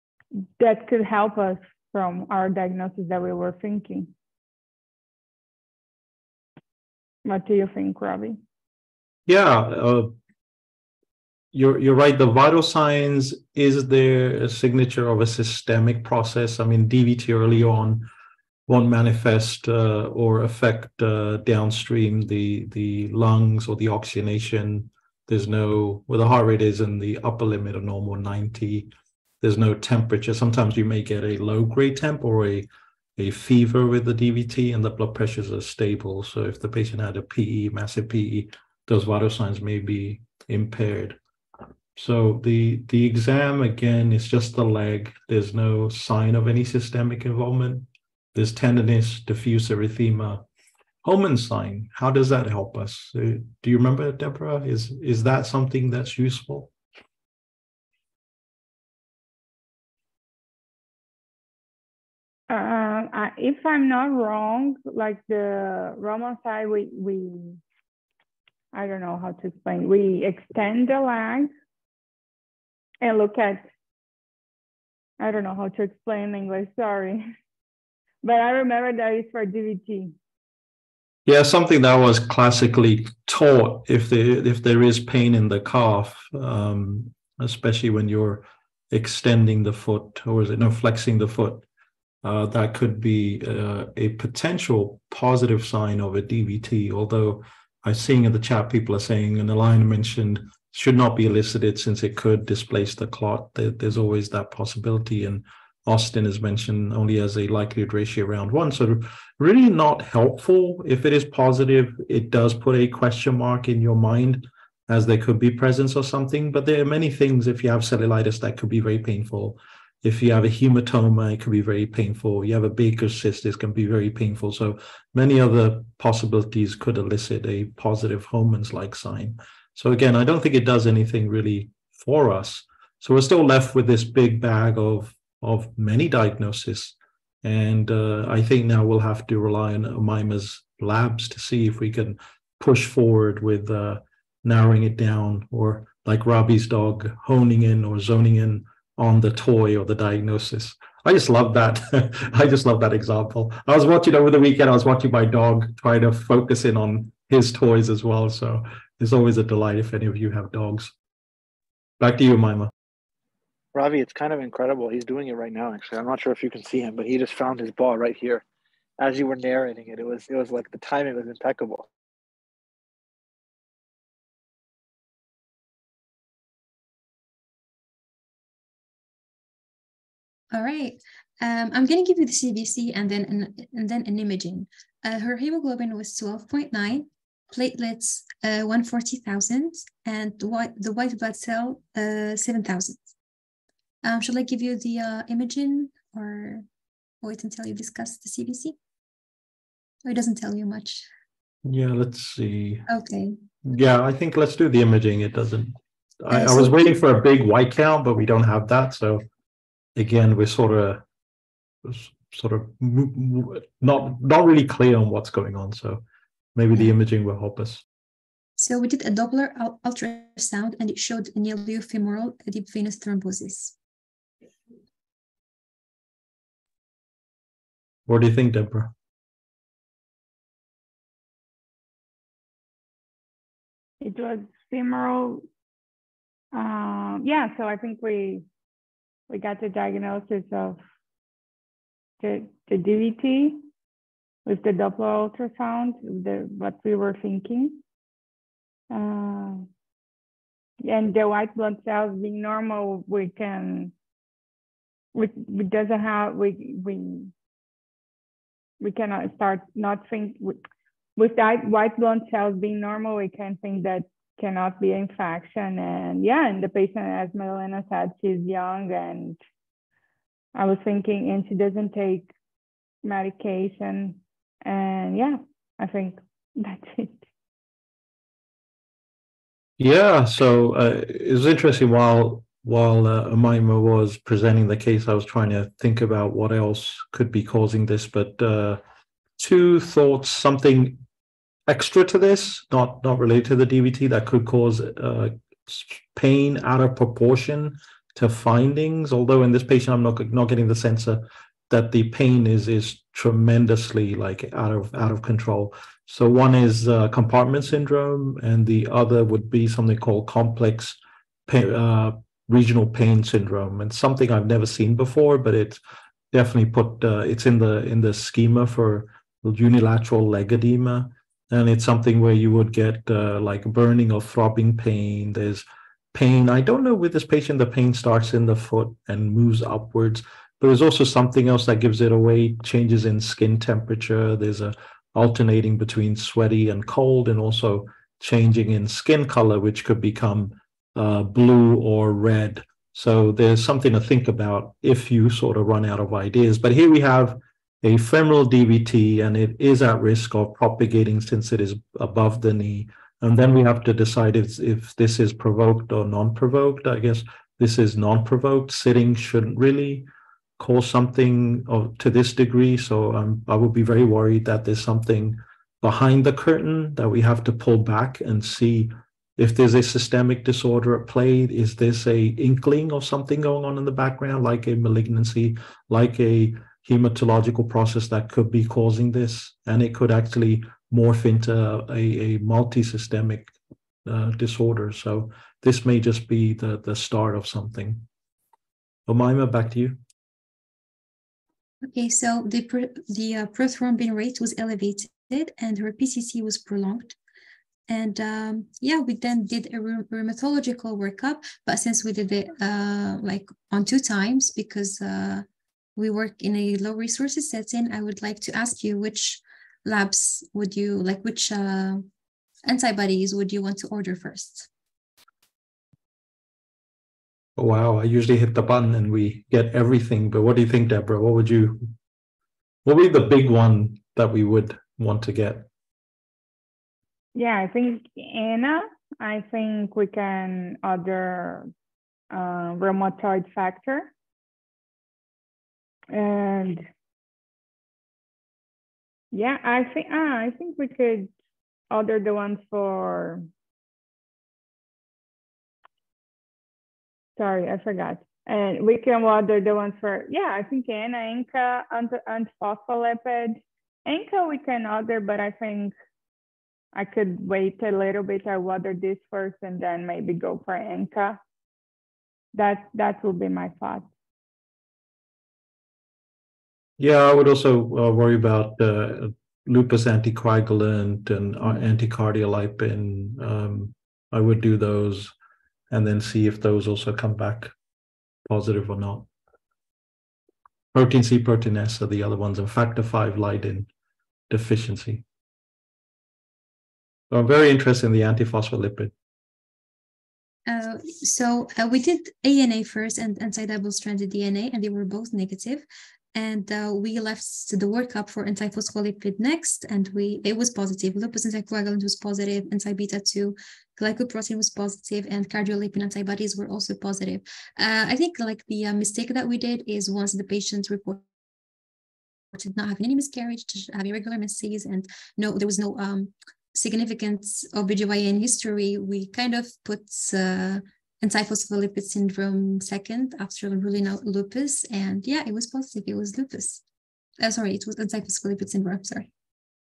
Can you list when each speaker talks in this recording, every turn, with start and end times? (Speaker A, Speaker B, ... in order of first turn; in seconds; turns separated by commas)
Speaker A: 0.6-4.1, Speaker A: 7.2-8.4, Speaker B: 9.3-10.1, Speaker B: 11.5-18.1, Speaker B: 18.7-41.2, Speaker B: 42.0-50.4, Speaker B: 51.0-56.7, Speaker A: 62.5-67.6, Speaker A: 68.7-71.5, Speaker A: 73.0-73.7, Speaker A: 75.2-77.2, Speaker A: 78.2-80.1, Speaker B: 81.2-91.6, Speaker B: 92.2-160.9, Speaker B: 162.0-162.7, Speaker C: 163.7-168.4, Speaker C: 169.0-171.9, Speaker D: 180.5-193.1, Speaker D: 194.0-196.7, Speaker D: 197.2-198.8, Speaker D: 200.0-201.1, Speaker B: 201.6-202.8, Speaker D: 202.9-203.4, Speaker B: 203.6-209.2, Speaker D: 206.3-206.9, Speaker B: 209.9-211.0, Speaker B: 211.8-216.0, Speaker B: 216.5-217.8, Speaker D: 218.6-223.8, Speaker B: 228.1-228.9, Speaker A: 234.0-235.4, Speaker A: 236.5-238.4, Speaker A: 239.3-240.8, Speaker A: 242.2-243.6, Speaker A: 244.4-247.8, Speaker A: 248.9-249.7, Speaker A: 250.8-253.9, Speaker A: 255.1-257.3, Speaker A: 258.8-260.6, Speaker A: 261.2-269.4, Speaker A: 270.5-272.3, Speaker A: 273.0-277.2, Speaker B: 279.8-288.8, Speaker B: 289.4-291.0, Speaker B: 291.7-315.8, Speaker B: 316.3-383.5, Speaker B: 384.0-388.1, Speaker B: 389.1-390.0, Speaker D: 391.9-397.1, Speaker D: 397.9-405.4, Speaker D: 405.9-412.1, Speaker D: 412.6-414.7, Speaker B: 417.6-421.8, Speaker B: 422.8-425.7, Speaker A: 427.3-431.7, Speaker A: 432.3-434.1, Speaker A: 436.1-436.8, Speaker A: 439.3-441.3, Speaker A: 441.9-443.4, Speaker A: 447.4-455.9, Speaker A: 456.9-461.4, Speaker A: 462.5-464.1, Speaker B: 467.0-475.3, Speaker B: 475.9-477.7, Speaker B: 478.4-479.3, Speaker B: 480.9-483.9, Speaker B: 484.5-485.2, Speaker B: 487.3-489.1, Speaker D: 490.7-511.2, Speaker D: 512.5-526.8, Speaker D: 527.4-529.3